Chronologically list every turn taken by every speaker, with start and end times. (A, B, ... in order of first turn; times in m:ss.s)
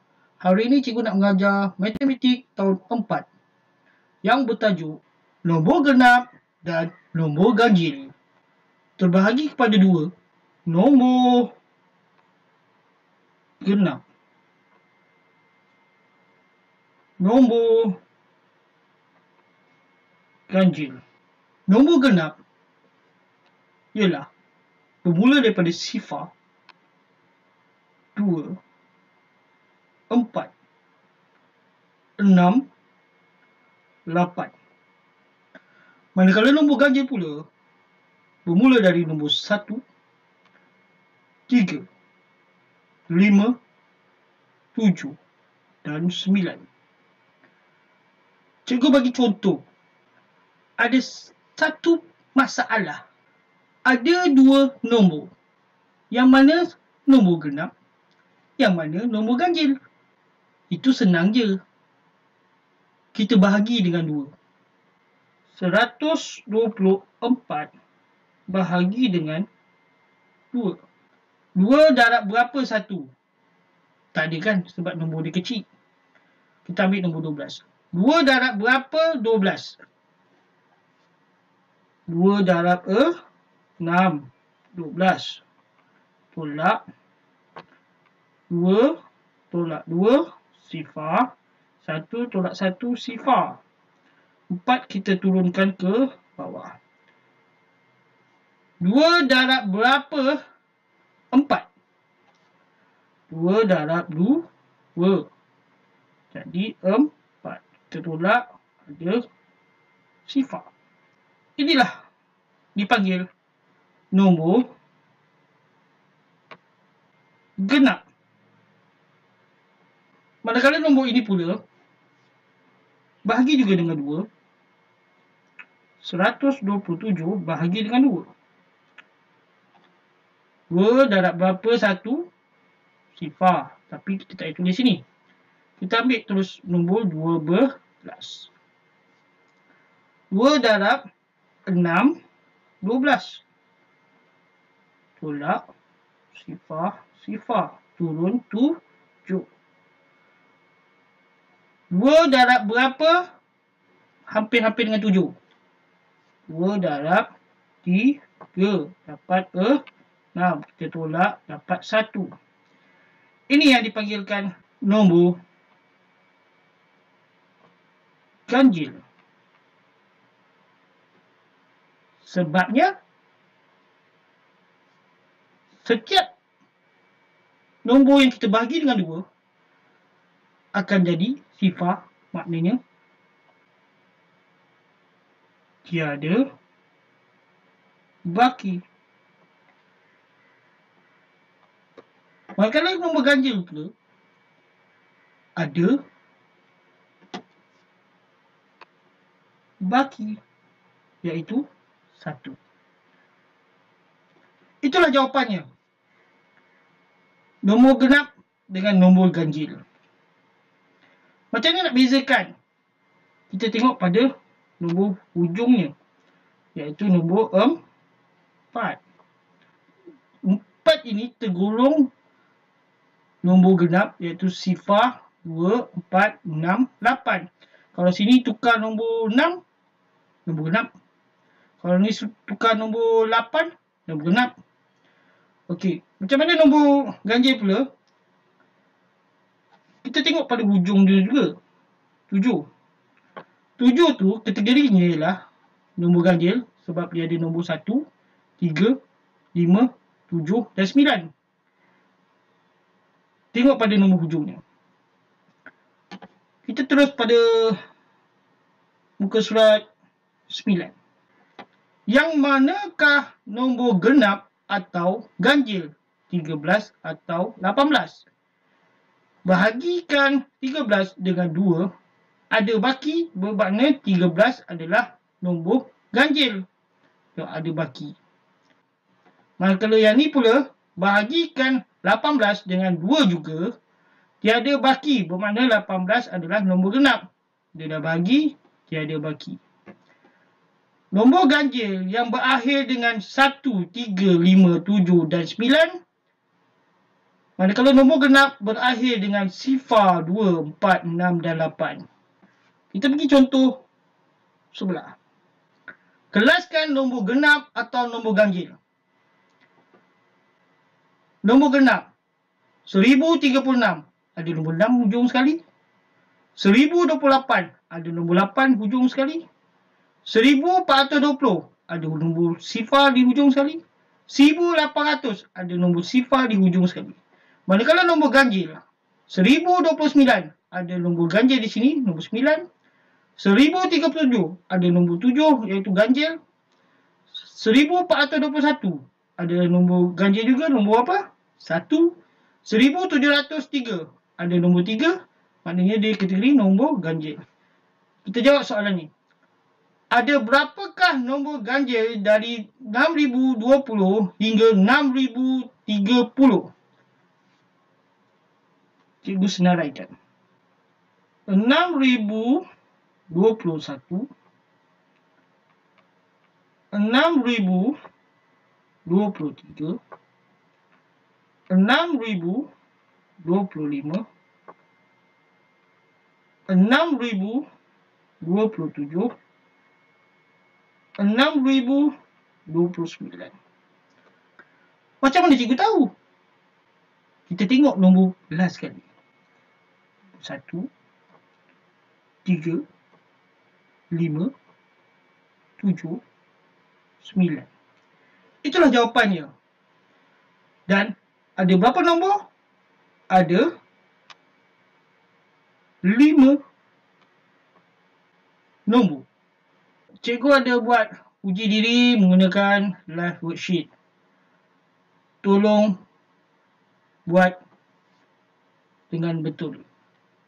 0:00.4-0:03.3 A
0:04.2-0:08.1 A
0:09.0-0:10.1 A
0:10.7-0:11.5 A
0:13.6-0:14.0 A
0:17.2-0:18.0 A
0:20.5-0:21.0 A
0:21.7-0:22.4 A
0:23.9-0:24.3 A
0:25.0-0:26.3 A
0:28.2-0:28.6 A
0:30.1-0:30.5 A
0:32.2-0:32.7 A
0:34.1-0:34.5 A
0:36.2-0:37.4 A
0:38.5-0:39.8 A
0:41.5-0:41.9 A
0:43.1-0:43.6 A
0:44.7-0:45.2 A
0:45.8-0:46.6 A
0:48.7-0:49.6 A
0:50.8-0:53.0 A
0:53.9-0:55.3 A
0:56.1-0:57.7 A
0:58.6-0:59.8 A
1:00.7-1:01.6 A
1:03.1-1:04.3 A
1:05.5-1:07.7 A
1:08.5-1:09.5 A
1:10.5-1:10.8 A
1:11.6-1:13.1 A
1:14.1-1:15.7 A
1:16.6-1:19.8 A
1:22.1-1:23.2 A
1:23.8-1:25.4 A
1:26.3-1:26.8 A
1:28.5-1:29.0 A
1:29.5-1:33.6 A
1:34.5-1:36.8 A
1:38.8-1:40.4 A
1:41.3-1:41.7 A
1:43.3-1:45.3 A
1:46.3-1:49.2 A
1:50.3-1:50.7 A
1:51.6-1:52.1 A
1:52.8-1:53.3 A
1:54.1-1:54.7 A
1:57.6-1:58.0 A
2:00.4-2:01.6 A
2:03.2-2:04.3 A
2:06.0-2:08.3 A
2:10.7-2:12.3 A
2:13.2-2:15.0 A
2:15.8-2:18.5 A
2:20.3-2:21.0 A
2:21.7-2:22.2 A
2:22.8-2:23.4 A
2:25.2-2:25.6 A
2:26.3-2:29.5 A
2:31.9-2:33.2 A
2:34.3-2:35.3 A
2:36.5-2:37.3 A
2:37.8-2:39.8 A
2:40.4-2:42.3 A
2:43.5-2:45.4 A
2:48.5-2:49.0 A
2:52.2-2:52.9 A
2:55.8-2:56.3 A
2:57.8-2:59.2 A
3:00.7-3:02.8 A
3:05.8-3:06.5 A
3:08.3-3:08.8 A
3:12.6-3:13.9 A
3:15.6-3:16.0 A
3:19.8-3:20.4 A
3:21.2-3:21.6 A
3:22.2-3:22.6 A
3:24.8-3:25.7 A
3:27.6-3:29.8 A
3:31.5-3:32.5 A
3:33.5-3:35.9 A
3:36.8-3:37.8 A
3:38.7-3:39.0 A
3:40.4-3:42.1 A
3:43.4-3:49.6 A
3:50.5-3:50.9 A
3:51.8-3:54.5 A
3:55.7-3:57.9 A
4:00.0-4:01.6 A
4:02.3-4:02.7 A
4:03.8-4:05.4 A
4:06.0-4:08.1 A
4:08.6-4:09.0 A
4:09.5-4:11.3 A
4:13.5-4:14.6 A
4:16.6-4:17.8 A
4:19.2-4:19.8 A
4:20.5-4:20.9 A
4:22.1-4:28.2 A
4:29.4-4:31.9 A
4:32.5-4:36.7 A
4:37.4-4:38.2 A
4:39.6-4:43.7 A
4:44.4-4:49.6 A
4:51.1-4:56.0 A
4:57.6-5:02.0 A
5:02.9-5:03.8 A
5:04.7-5:05.2 A
5:06.3-5:08.8 A
5:11.4-5:12.1 A
5:12.9-5:15.6 A
5:16.6-5:19.4 A
5:20.2-5:32.6 A
5:33.4-5:36.4 A
5:37.3-5:47.4 A
5:48.2-5:49.1 A
5:50.1-5:56.7 A
5:59.2-6:00.1 A
6:01.5-6:02.6 A
6:03.3-6:04.3 A
6:06.9-6:08.0 A
6:09.0-6:10.0 A
6:11.7-6:12.7 A
6:13.4-6:14.2 A
6:16.7-6:17.6 A
6:18.4-6:19.3 A
6:21.2-6:22.1 A
6:22.7-6:23.6 A
6:25.2-6:26.1 A
6:27.5-6:29.0 A
6:30.4-6:30.9 A
6:32.4-6:32.8 A
6:34.1-6:34.5 A
6:35.8-6:36.2 A
6:37.2-6:37.7 A
6:38.6-6:39.5 A
6:40.9-6:42.4 A
6:43.3-6:43.7 A
6:46.0-6:46.6 A
6:48.9-6:49.3 A
6:50.2-6:53.9 A
6:55.4-6:56.0 A
6:57.3-6:57.6 A
6:59.1-6:59.8 A